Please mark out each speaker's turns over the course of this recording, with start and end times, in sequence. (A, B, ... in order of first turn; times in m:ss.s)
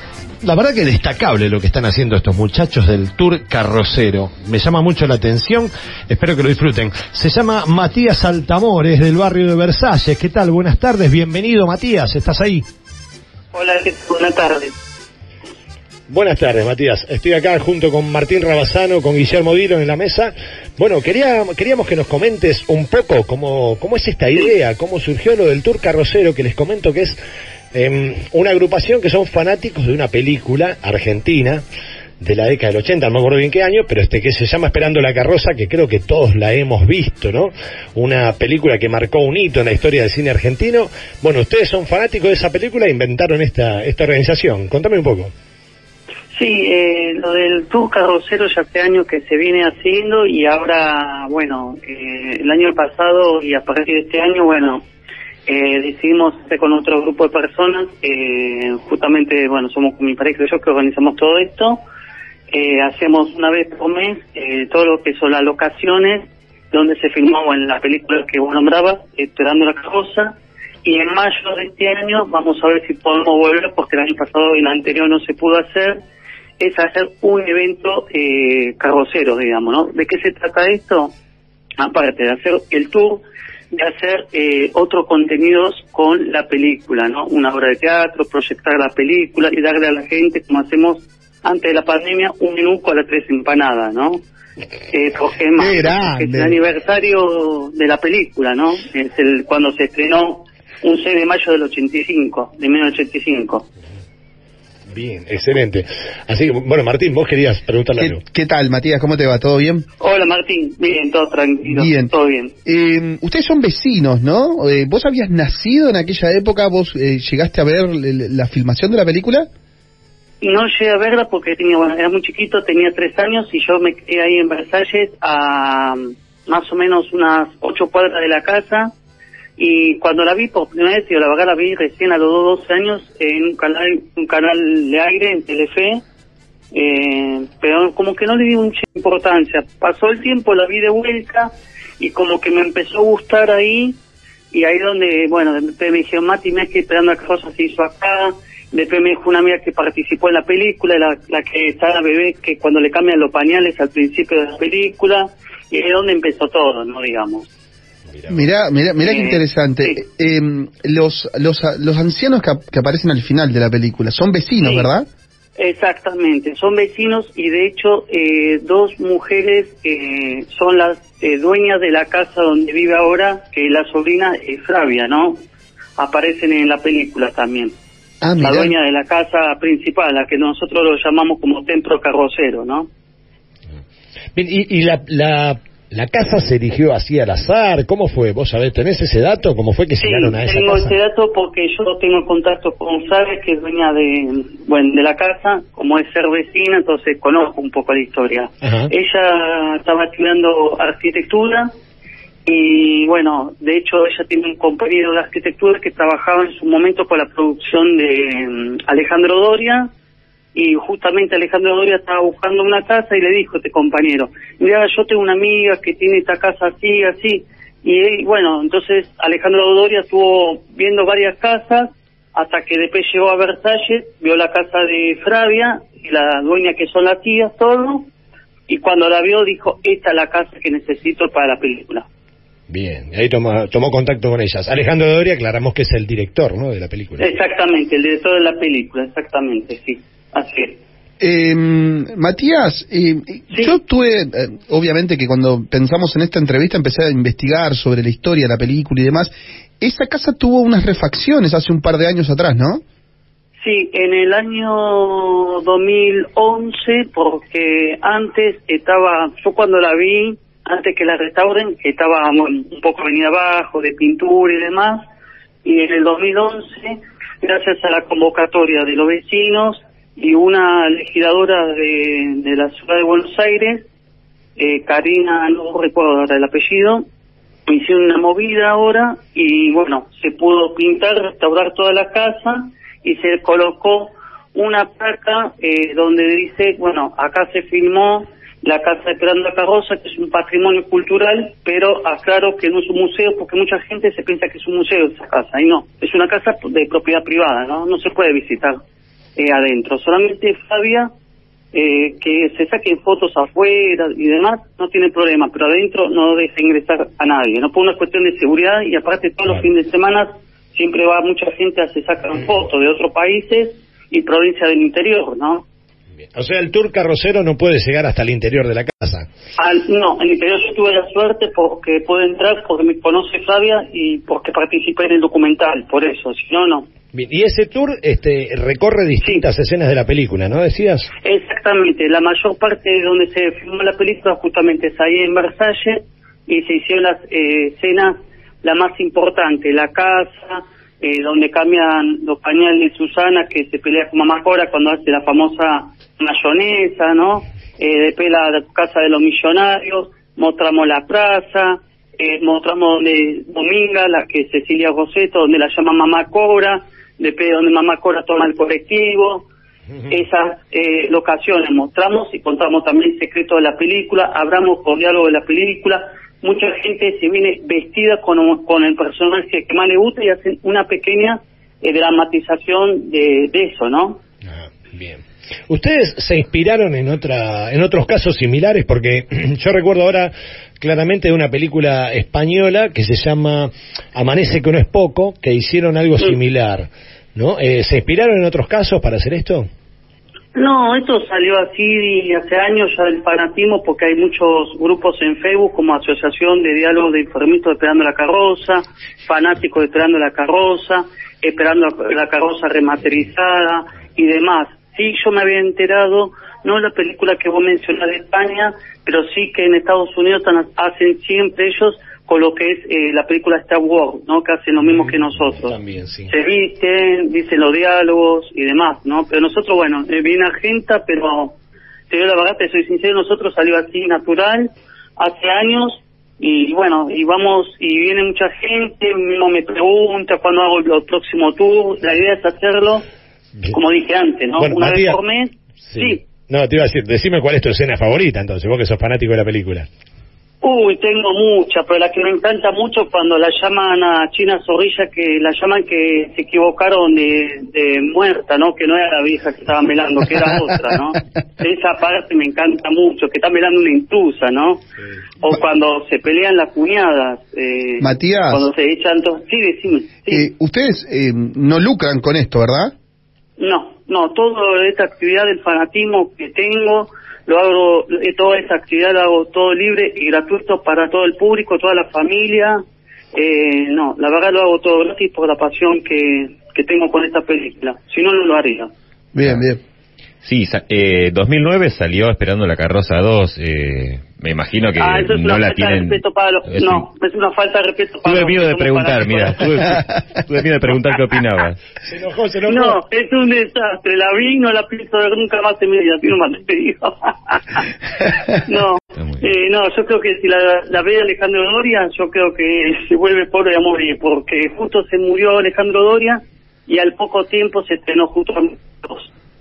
0:00.4-0:12.6 A
0:13.5-0:14.7 B
0:16.1-0:27.2 A
0:27.7-0:31.6 A
0:32.2-0:45.3 A
0:46.4-0:54.8 B
0:55.5-1:01.8 B
1:02.5-1:16.0 B
1:16.6-1:21.1 B
1:21.8-1:34.2 B
1:34.9-1:43.7 B
1:35.6-1:36.6 C
1:44.9-1:48.2 A
1:48.0-1:49.9 C
1:50.0-1:52.5 B
1:51.7-1:52.1 C
1:52.7-1:59.5 C
2:00.4-2:08.9 B
2:09.6-2:16.0 B
2:16.7-2:24.0 B
2:24.5-2:37.5 B
2:38.3-2:45.1 C
2:39.0-2:40.0 B
2:44.6-2:44.9 B
2:45.6-2:55.4 B
2:56.0-2:57.7 B
2:58.2-2:58.7 C
2:58.4-3:02.9 B
3:04.4-3:10.9 A
3:10.0-3:21.7 B
3:18.6-3:18.9 A
3:22.5-3:29.9 B
3:30.5-3:48.1 B
3:48.7-3:52.1 B
3:52.7-3:57.3 A
3:57.2-4:00.8 B
4:01.2-4:12.8 C
4:13.6-4:25.0 B
4:25.6-4:33.9 B
4:34.6-4:37.0 B
4:37.7-4:58.8 B
4:59.4-5:01.1 B
5:01.7-5:15.6 B
5:16.3-5:19.3 A
5:19.6-5:26.9 B
5:27.1-5:31.1 A
5:31.2-5:59.5 B
6:00.1-6:14.2 B
6:14.5-6:29.7 A
6:30.6-7:01.6 B
6:55.6-6:56.3 A
7:02.1-7:13.0 B
7:13.7-7:16.2 B
7:14.6-7:15.2 A
7:15.8-7:19.9 A
7:20.6-7:34.8 B
7:35.4-7:40.5 B
7:38.0-7:38.7 C
7:40.3-7:42.9 C
7:43.6-7:52.8 B
7:53.3-7:58.9 B
7:59.3-7:59.8 C
7:59.4-7:59.7 D
8:00.4-8:07.1 D
8:05.0-8:09.7 B
8:08.2-8:11.8 D
8:12.0-8:13.0 A
8:12.7-8:17.9 B
8:18.5-8:29.3 B